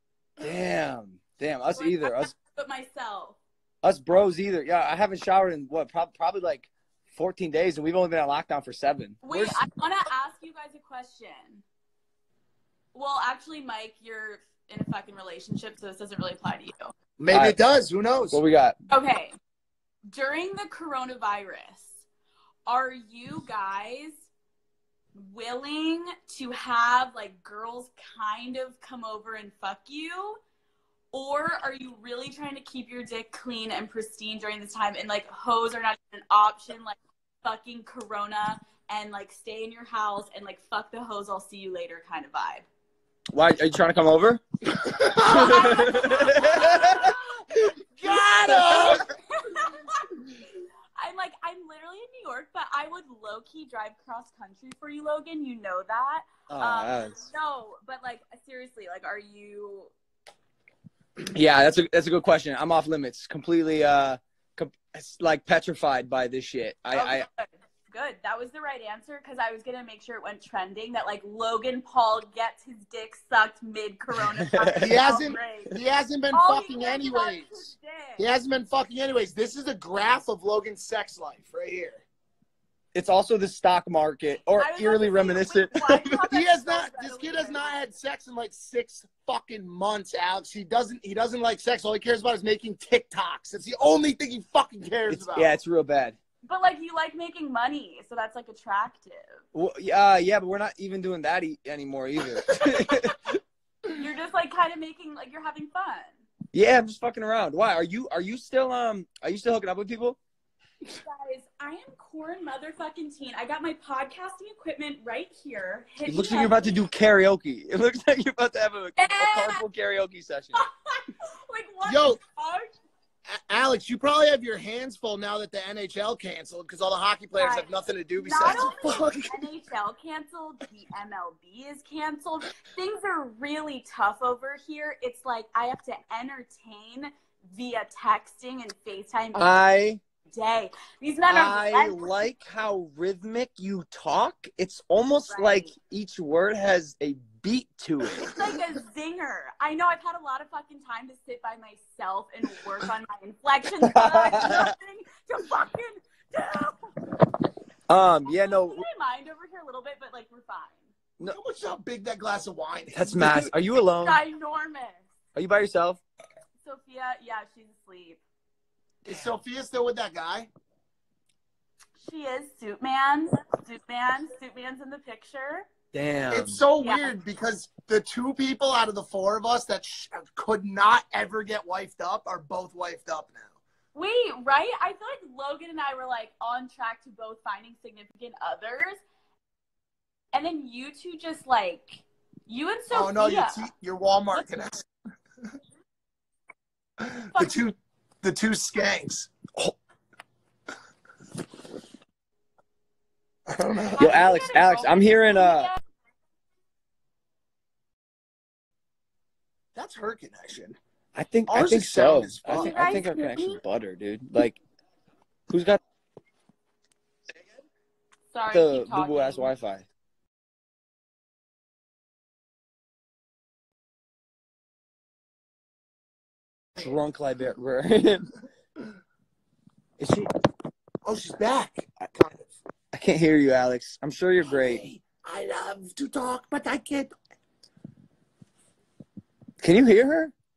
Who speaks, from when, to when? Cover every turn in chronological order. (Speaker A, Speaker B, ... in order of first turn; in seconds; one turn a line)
Speaker A: 0.4-2.3
Speaker B: 1.7-3.4
Speaker A: 3.8-9.6
Speaker B: 9.2-11.6
Speaker B: 12.9-16.9
Speaker C: 17.2-18.4
Speaker A: 17.3-17.6
Speaker A: 18.3-18.7
Speaker B: 18.9-19.3
Speaker B: 20.1-22.0
Speaker B: 22.6-24.3
Speaker B: 25.1-30.4
Speaker B: 31.1-42.6
Speaker A: 43.3-44.4
Speaker C: 44.9-45.5
Speaker A: 45.1-47.1
Speaker B: 45.2-47.2
Speaker C: 48.0-49.0
Speaker B: 48.0-50.2
Speaker A: 48.5-49.0
Speaker B: 51.0-59.9
Speaker A: 56.5-57.3
Speaker A: 61.3-67.2
Speaker B: 66.9-75.7
Speaker A: 74.6-75.0
Speaker C: 74.8-77.6
Speaker B: 76.3-78.2
Speaker C: 78.2-82.0
Speaker A: 82.9-86.2
Speaker B: 84.6-87.8
Speaker C: 86.3-95.5
Speaker A: 95.1-96.2
Speaker B: 96.4-99.4
Speaker A: 99.5-103.4
Speaker B: 103.9-106.2
Speaker A: 106.5-110.2
Speaker B: 111.0-116.8
Speaker A: 116.0-120.6
Speaker B: 119.0-119.6
Speaker B: 120.5-122.7
Speaker C: 121.8-122.2
Speaker C: 123.3-129.4
Speaker B: 127.4-139.6
Speaker A: 139.3-140.0
Speaker B: 140.2-142.2
Speaker A: 141.3-148.3
Speaker B: 145.3-145.7
Speaker B: 148.3-156.9
Speaker A: 153.9-154.7
Speaker A: 157.9-158.8
Speaker B: 158.2-160.9
Speaker C: 161.2-163.5
Speaker A: 162.9-164.2
Speaker B: 164.0-165.1
Speaker A: 165.3-166.0
Speaker B: 166.6-168.2
Speaker C: 169.1-170.5
Speaker B: 172.0-175.7
Speaker A: 175.9-176.6
Speaker C: 176.3-183.6
Speaker B: 176.8-177.1
Speaker B: 183.9-189.0
Speaker B: 190.3-193.7
Speaker C: 192.9-194.8
Speaker C: 197.0-199.3
Speaker B: 197.3-197.6
Speaker C: 203.5-204.2
Speaker B: 203.9-205.8
Speaker A: 204.0-205.7
Speaker C: 209.7-210.8
Speaker A: 211.1-214.6
Speaker C: 211.5-212.9
Speaker B: 212.6-213.6
Speaker A: 215.5-215.8
Speaker B: 218.3-219.5
Speaker A: 218.5-219.9
Speaker A: 226.8-228.3
Speaker A: 230.0-230.3
Speaker C: 231.0-232.5
Speaker A: 232.9-234.8
Speaker C: 234.4-237.1
Speaker A: 239.6-240.3